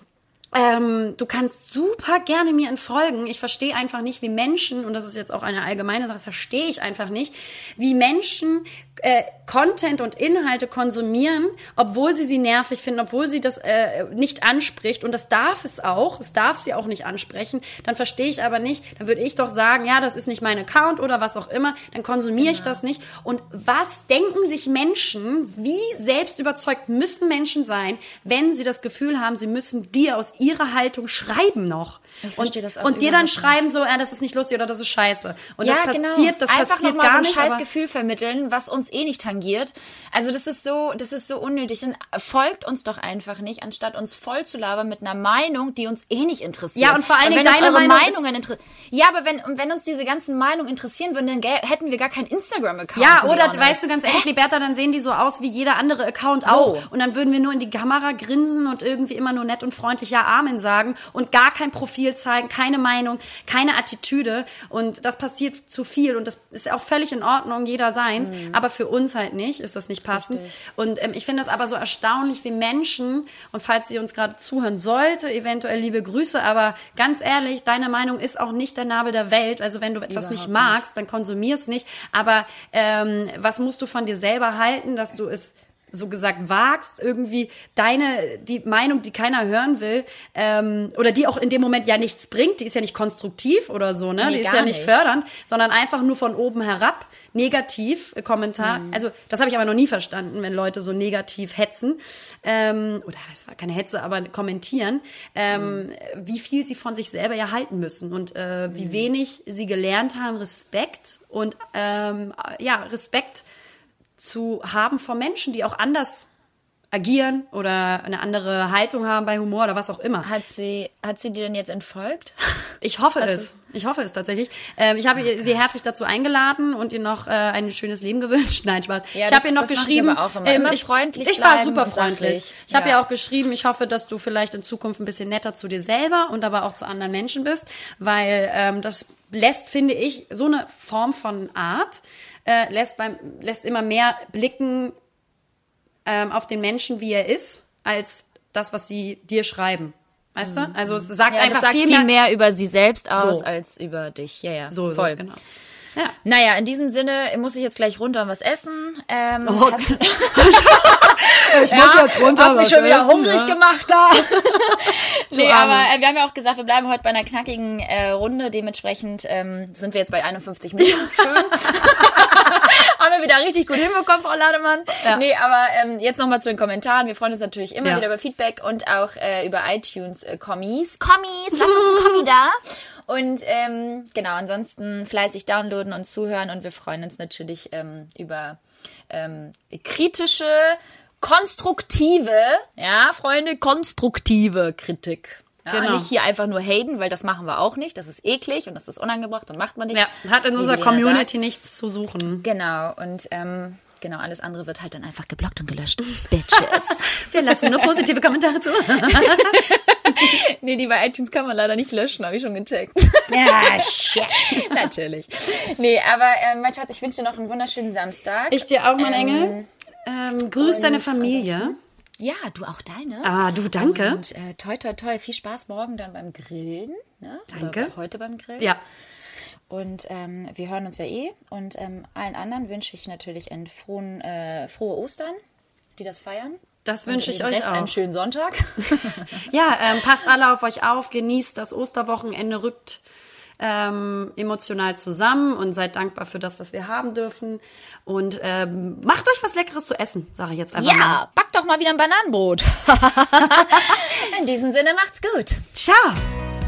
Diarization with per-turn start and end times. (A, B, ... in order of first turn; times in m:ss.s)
0:00.5-0:37.6 A
0:22.4-0:22.8 B
0:32.2-0:33.6 B
0:35.6-0:54.2 B
0:46.8-0:48.2 A
0:53.0-1:53.4 A
0:56.4-0:56.9 B
1:08.2-1:08.6 B
1:10.1-1:10.6 B
1:20.1-1:20.8 B
1:34.2-1:35.1 B
1:38.6-1:39.0 B
1:48.7-1:49.0 B
1:54.2-1:56.3 A
1:56.9-2:00.3 A
2:00.2-2:03.5 B
2:02.8-2:24.9 A
2:09.1-2:13.0 B
2:26.0-2:32.1 A
2:30.4-2:30.8 B
2:31.3-2:35.2 B
2:33.2-2:33.4 A
2:34.7-2:35.4 A
2:36.2-3:21.3 B
2:39.4-2:43.6 A
2:44.5-2:45.9 A
3:15.7-3:16.1 A
3:19.9-3:22.4 A
3:22.4-3:28.0 B
3:26.7-3:29.6 A
3:29.0-3:39.7 B
3:33.3-3:34.8 A
3:38.5-3:41.8 A
3:40.6-3:48.7 B
3:43.2-3:44.2 A
3:47.5-3:47.9 A
3:49.7-3:55.4 B
3:56.0-3:59.5 B
3:56.8-3:57.9 A
3:58.8-4:03.0 A
4:03.6-4:11.2 A
4:10.8-4:15.6 B
4:13.4-4:13.9 A
4:15.7-4:16.2 A